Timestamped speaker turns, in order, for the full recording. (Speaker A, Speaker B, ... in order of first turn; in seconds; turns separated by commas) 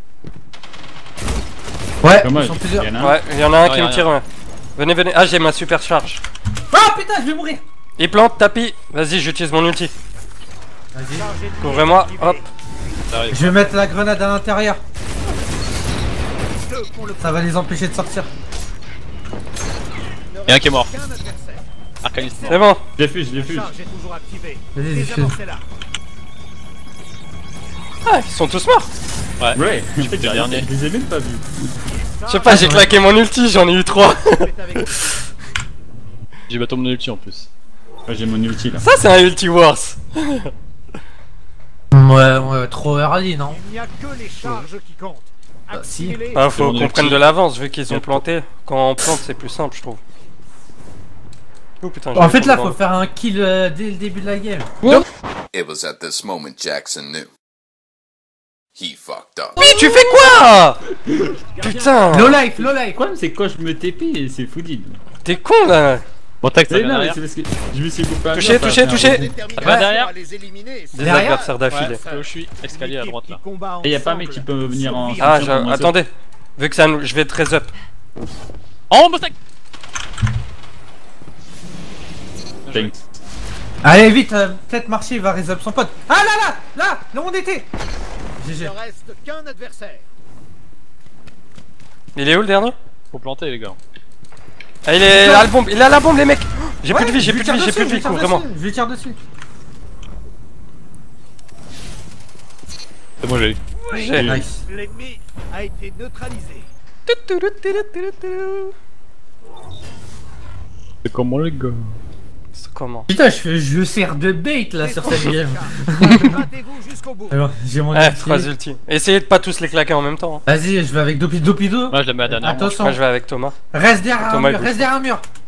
Speaker A: 2.0-2.9, Speaker B: 2.2-3.1, Speaker C: 3.0-6.2, Speaker D: 3.6-4.1, Speaker A: 6.7-7.6, Speaker C: 8.0-9.9, Speaker A: 10.9-11.3, Speaker E: 11.1-12.5, Speaker C: 11.6-12.4, Speaker D: 13.1-13.7, Speaker A: 13.3-14.8, Speaker E: 16.6-17.6, Speaker A: 17.2-18.3, Speaker E: 20.3-22.6, Speaker D: 20.5-20.9, Speaker D: 22.0-22.7, Speaker C: 22.5-22.8, Speaker B: 22.9-23.7, Speaker E: 23.3-25.6, Speaker A: 24.7-25.4, Speaker C: 28.0-28.9, Speaker D: 29.4-30.7, Speaker B: 29.5-31.7, Speaker E: 31.9-32.8, Speaker C: 32.3-34.9, Speaker A: 32.5-32.9, Speaker E: 33.9-34.9, Speaker D: 36.5-37.5, Speaker B: 38.1-38.8, Speaker C: 38.8-40.5, Speaker A: 41.9-43.6, Speaker E: 43.5-46.4, Speaker A: 45.7-46.2, Speaker C: 46.3-50.0, Speaker D: 46.4-47.2, Speaker D: 47.9-48.2, Speaker C: 51.8-52.8, Speaker A: 52.1-54.7, Speaker F: 55.5-57.3, Speaker F: 58.8-59.6, Speaker C: 59.6-60.8, Speaker B: 61.1-61.4, Speaker C: 61.6-62.4, Speaker A: 62.1-63.0, Speaker B: 62.9-65.0, Speaker C: 65.2-66.0, Speaker D: 66.4-67.2, Speaker B: 66.7-69.5, Speaker C: 68.3-69.2, Speaker E: 68.9-71.5, Speaker D: 69.5-70.1, Speaker A: 69.6-69.9, Speaker C: 70.9-72.0, Speaker A: 71.0-71.4, Speaker D: 71.7-73.4, Speaker E: 72.7-75.5, Speaker B: 73.8-76.0, Speaker C: 75.2-77.7, Speaker D: 78.9-79.3, Speaker D: 82.6-83.0, Speaker B: 82.7-83.0, Speaker A: 83.8-87.7, Speaker A: 88.4-88.7, Speaker E: 88.5-90.0, Speaker C: 92.1-92.8, Speaker D: 93.1-93.8, Speaker C: 94.8-98.4, Speaker A: 95.0-95.5, Speaker A: 96.9-99.2, Speaker D: 103.2-103.6, Speaker C: 103.8-104.3, Speaker D: 104.1-104.4, Speaker A: 104.2-104.6, Speaker E: 104.3-106.7, Speaker C: 107.0-108.7, Speaker D: 111.0-112.0, Speaker C: 112.5-113.1, Speaker A: 113.1-116.4, Speaker E: 114.8-117.3, Speaker A: 117.3-118.5, Speaker C: 117.9-120.4, Speaker A: 120.5-123.0, Speaker D: 121.9-122.8, Speaker C: 122.6-123.5, Speaker A: 123.7-125.2, Speaker C: 124.2-124.9